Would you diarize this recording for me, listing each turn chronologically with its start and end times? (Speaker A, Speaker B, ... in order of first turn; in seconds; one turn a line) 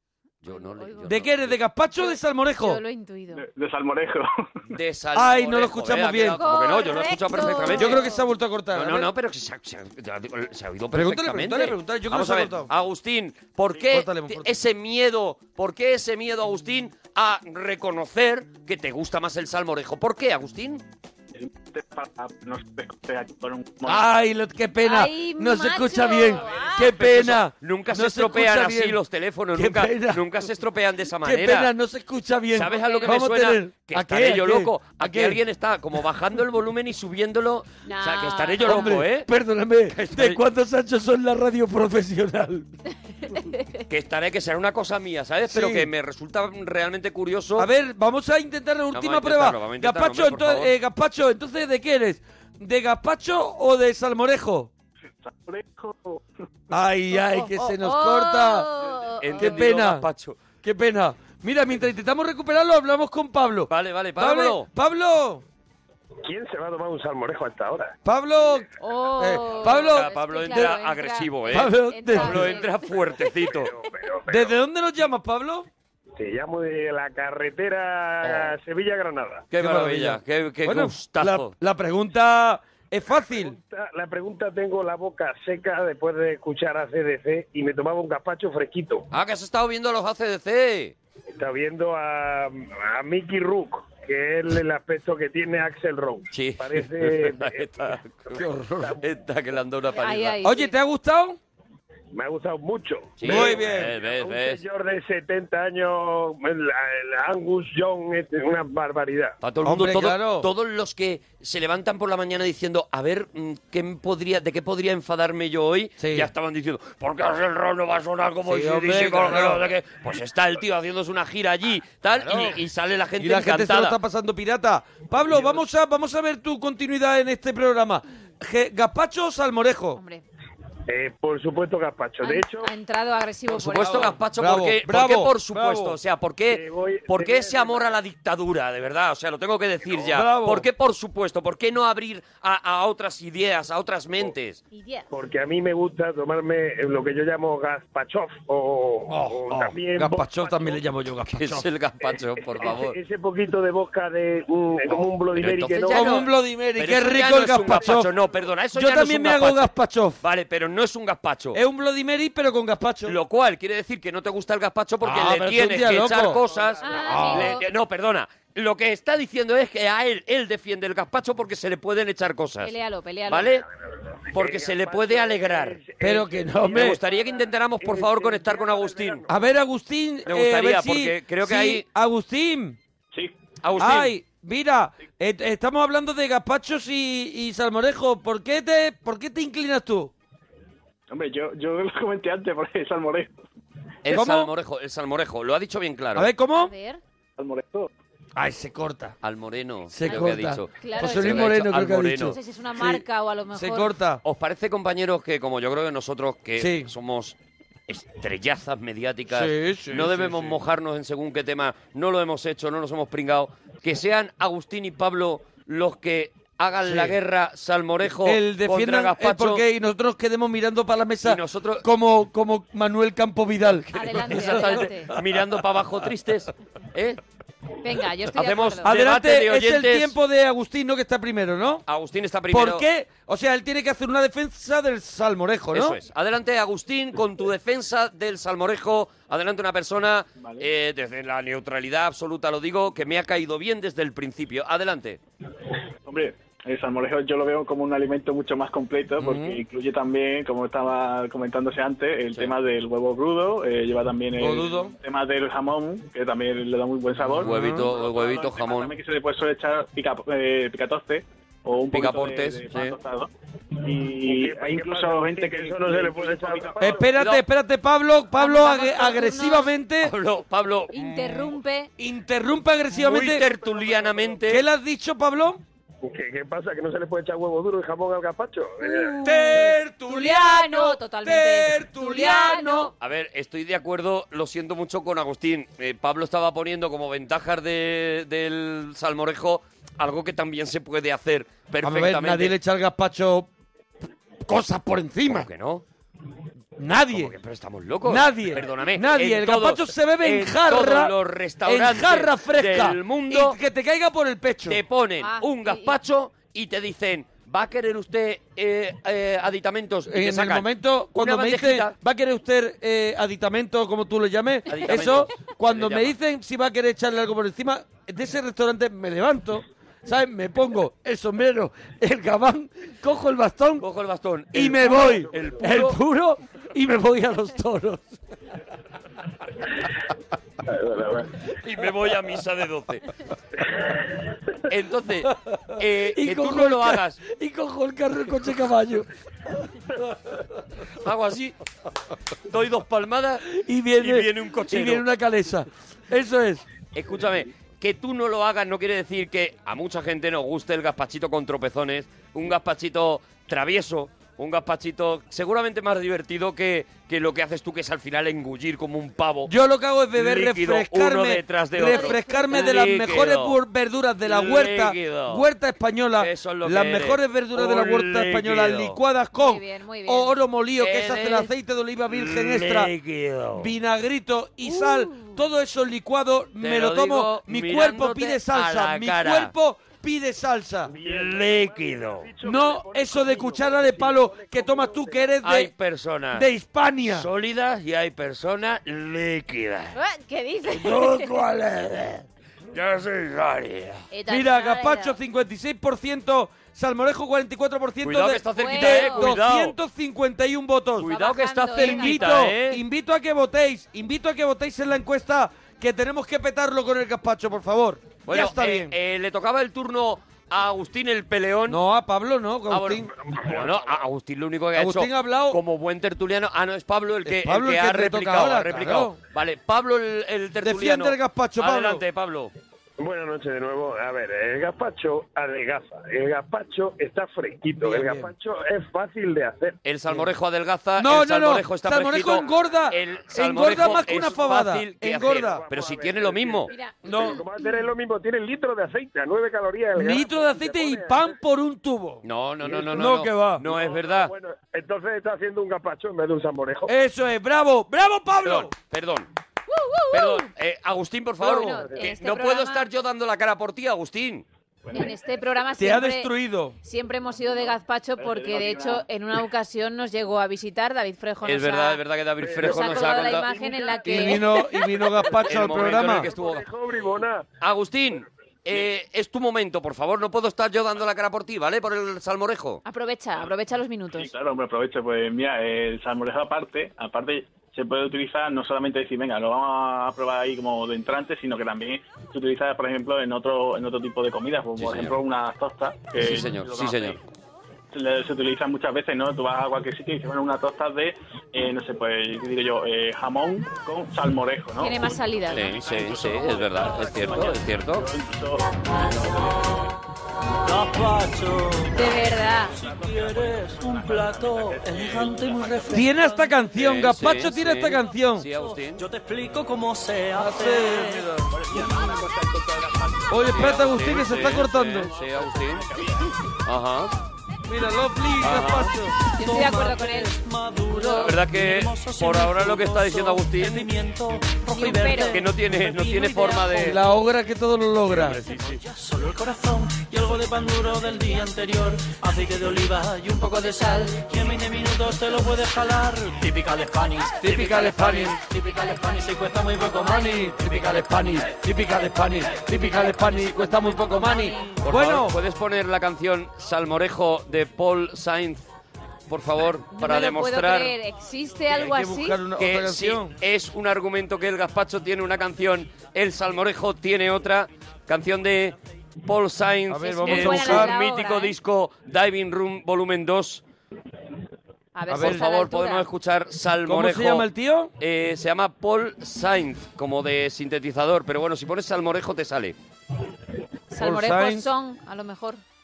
Speaker A: 0.4-1.6
Speaker B: 0.5-1.2
Speaker C: 1.0-2.8
Speaker B: 1.9-3.5
Speaker D: 3.3-4.7
Speaker A: 4.7-8.1
Speaker C: 5.2-6.4
Speaker B: 6.4-8.2
Speaker C: 7.7-9.1
Speaker A: 8.7-20.8
Speaker C: 10.9-12.7
Speaker C: 13.8-14.5
Speaker D: 21.4-24.0
Speaker C: 23.8-29.0
Speaker B: 24.8-27.0
Speaker A: 26.8-31.7
Speaker C: 29.6-30.2
Speaker C: 31.2-35.4
Speaker A: 32.5-39.3
Speaker B: 32.7-33.3
Speaker B: 37.9-39.0
Speaker C: 38.6-42.7
Speaker A: 39.9-40.4
Speaker B: 43.1-43.9
Speaker A: 43.9-47.7
Speaker C: 45.5-45.9
Speaker C: 47.6-54.7
Speaker A: 48.9-50.7
Speaker D: 55.2-56.3
Speaker C: 56.7-58.7
Speaker B: 57.1-59.6
Speaker A: 59.2-60.4
Speaker C: 59.3-60.1
Speaker C: 60.6-65.4
Speaker A: 63.7-64.7
Speaker E: 66.2-68.0
Speaker C: 68.0-68.7
Speaker B: 68.8-72.8
Speaker C: 69.2-70.8
Speaker A: 69.6-73.7
Speaker C: 71.5-72.7
Speaker E: 73.5-74.6
Speaker C: 74.3-75.7
Speaker E: 76.2-79.5
Speaker C: 78.2-78.5
Speaker A: 79.5-81.5
Speaker C: 79.6-83.6
Speaker E: 83.3-89.1
Speaker A: 89.1-91.0
Speaker E: 91.3-98.0
Speaker A: 96.3-98.4
Speaker C: 98.3-99.0
Speaker A: 99.0-100.4
Speaker B: 100.0-100.8
Speaker C: 100.4-101.4
Speaker E: 102.1-109.4
Speaker A: 103.2-104.6
Speaker C: 103.2-103.9
Speaker A: 109.4-124.0
Speaker C: 109.6-110.5
Speaker C: 116.0-116.3
Speaker C: 118.5-119.7
Speaker C: 122.2-122.6
Speaker C: 123.2-130.0
Speaker B: 130.0-130.2
Speaker E: 130.9-132.7
Speaker B: 132.2-134.2
Speaker A: 133.5-144.6
Speaker C: 133.8-136.0
Speaker E: 136.5-138.0
Speaker C: 140.1-140.7
Speaker B: 144.7-145.1
Speaker E: 145.1-150.8
Speaker C: 149.1-151.7
Speaker A: 151.3-153.0
Speaker E: 152.6-156.2
Speaker A: 155.3-161.6
Speaker C: 155.9-158.1
Speaker C: 158.7-160.2
Speaker C: 161.5-163.2
Speaker A: 163.1-172.7
Speaker C: 165.0-166.4
Speaker E: 166.4-167.0
Speaker B: 166.8-167.7
Speaker C: 167.0-167.6
Speaker B: 172.6-173.6
Speaker A: 173.3-173.7
Speaker E: 174.3-179.3
Speaker A: 174.3-175.9
Speaker C: 176.0-177.0
Speaker A: 176.7-179.2
Speaker C: 179.3-182.8
Speaker A: 180.3-181.8
Speaker A: 183.6-184.1
Speaker C: 183.8-190.1
Speaker D: 191.1-193.4
Speaker A: 194.0-196.3
Speaker C: 194.1-194.5
Speaker C: 196.2-196.7
Speaker B: 196.6-197.0
Speaker D: 197.4-197.9
Speaker C: 198.4-199.2
Speaker A: 199.2-202.4
Speaker C: 199.9-204.2
Speaker B: 200.1-201.7
Speaker B: 202.2-203.9
Speaker A: 204.2-207.3
Speaker C: 206.6-206.9
Speaker A: 207.9-219.6
Speaker C: 209.3-210.6
Speaker C: 216.8-217.2
Speaker C: 218.2-225.2
Speaker A: 221.2-221.8
Speaker A: 223.9-227.2
Speaker B: 223.9-225.1
Speaker B: 227.8-228.9
Speaker A: 228.3-230.2
Speaker C: 228.8-231.8
Speaker A: 231.9-232.9
Speaker C: 232.5-236.0
Speaker A: 235.7-245.2
Speaker D: 240.4-240.7
Speaker D: 246.1-267.1
Speaker C: 249.2-249.6
Speaker C: 254.4-254.9
Speaker A: 257.2-258.9
Speaker C: 257.4-257.9
Speaker A: 261.9-263.0
Speaker E: 264.2-267.1
Speaker C: 266.8-270.1
Speaker A: 267.2-267.4
Speaker B: 268.4-269.7
Speaker A: 270.0-270.9
Speaker B: 270.9-271.9
Speaker C: 272.0-273.5
Speaker A: 272.9-274.6
Speaker E: 273.8-274.1
Speaker C: 274.5-275.6
Speaker E: 276.0-279.2
Speaker B: 278.8-282.9
Speaker C: 279.2-282.9
Speaker A: 283.0-292.6
Speaker C: 291.8-293.5
Speaker C: 294.4-295.5
Speaker A: 295.3-295.8
Speaker C: 296.8-297.3
Speaker A: 297.1-303.6
Speaker C: 298.1-304.8
Speaker A: 304.7-311.9
Speaker B: 305.2-306.0
Speaker C: 310.1-323.9
Speaker A: 314.7-316.1
Speaker A: 323.8-326.0
Speaker C: 324.5-328.1
Speaker A: 331.6-333.1
Speaker A: 334.7-337.2
Speaker C: 336.1-339.1
Speaker A: 341.0-341.6
Speaker A: 342.5-345.1
Speaker C: 343.5-346.6
Speaker A: 346.9-359.5
Speaker C: 359.5-372.9
Speaker A: 360.1-363.6
Speaker B: 361.8-362.8
Speaker A: 364.2-365.5
Speaker A: 366.2-369.0
Speaker B: 369.3-370.4
Speaker A: 370.8-371.5
Speaker A: 372.1-373.7
Speaker C: 373.6-380.9
Speaker A: 376.6-379.5
Speaker E: 380.9-385.4
Speaker A: 381.0-382.3
Speaker C: 382.4-385.7
Speaker A: 385.4-386.5
Speaker C: 386.3-387.3
Speaker A: 387.0-390.0
Speaker B: 389.9-391.3
Speaker C: 390.7-392.2
Speaker A: 392.7-394.0
Speaker B: 394.1-395.2
Speaker C: 394.3-401.1
Speaker A: 398.0-399.8
Speaker B: 398.6-399.3
Speaker A: 401.0-402.8
Speaker B: 401.0-402.5
Speaker C: 401.7-408.9
Speaker A: 408.3-411.8
Speaker C: 411.7-413.1
Speaker A: 412.7-422.5
Speaker E: 413.2-414.0
Speaker C: 414.8-415.6
Speaker C: 417.2-419.2
Speaker C: 420.6-422.0
Speaker E: 423.0-429.8
Speaker C: 427.8-428.3
Speaker A: 429.9-436.7
Speaker C: 431.0-435.6
Speaker E: 435.3-441.4
Speaker B: 436.7-437.4
Speaker C: 437.0-437.4
Speaker C: 439.9-443.6
Speaker A: 442.2-444.3
Speaker E: 443.6-446.9
Speaker C: 446.9-448.7
Speaker A: 448.4-449.3
Speaker B: 449.7-450.5
Speaker A: 450.1-454.4
Speaker B: 451.4-452.9
Speaker C: 451.4-451.8
Speaker D: 454.9-455.2
Speaker B: 454.9-462.0
Speaker C: 455.8-456.8
Speaker D: 458.2-459.0
Speaker A: 461.4-463.5
Speaker E: 462.4-464.4
Speaker B: 462.6-464.9
Speaker C: 464.0-466.3
Speaker E: 465.4-467.5
Speaker A: 465.5-466.7
Speaker A: 467.6-472.8
Speaker B: 472.9-474.3
Speaker D: 474.1-487.2
Speaker A: 484.8-485.2
Speaker A: 486.2-487.2
Speaker D: 487.9-499.8
Speaker B: 494.8-495.7
Speaker A: 495.5-498.1
Speaker F: 500.6-506.4
Speaker B: 501.9-502.8
Speaker D: 502.7-506.1
Speaker C: 505.9-508.5
Speaker A: 506.8-509.0
Speaker F: 508.6-512.2
Speaker C: 510.4-511.5
Speaker D: 511.5-513.9
Speaker C: 513.3-515.1
Speaker A: 513.5-515.9
Speaker D: 514.5-516.3
Speaker A: 516.6-517.1
Speaker C: 517.7-519.1
Speaker A: 518.4-518.9
Speaker F: 519.3-527.0
Speaker B: 519.4-520.4
Speaker B: 521.0-521.2
Speaker A: 521.2-523.9
Speaker B: 524.8-525.4
Speaker A: 525.3-527.0
Speaker C: 526.8-528.4
Speaker A: 528.1-528.8
Speaker F: 528.5-544.5
Speaker C: 537.4-538.4
Speaker C: 540.0-545.4
Speaker B: 544.2-544.7
Speaker A: 544.8-548.6
Speaker A: 549.3-551.0
Speaker B: 549.9-552.4
Speaker C: 551.7-553.4
Speaker A: 552.6-563.6
Speaker C: 559.9-561.0
Speaker B: 560.1-561.5
Speaker B: 565.0-566.1
Speaker C: 565.1-565.5
Speaker A: 565.1-567.5
Speaker C: 566.9-567.9
Speaker A: 568.0-572.8
Speaker B: 573.9-575.6
Speaker C: 574.0-574.7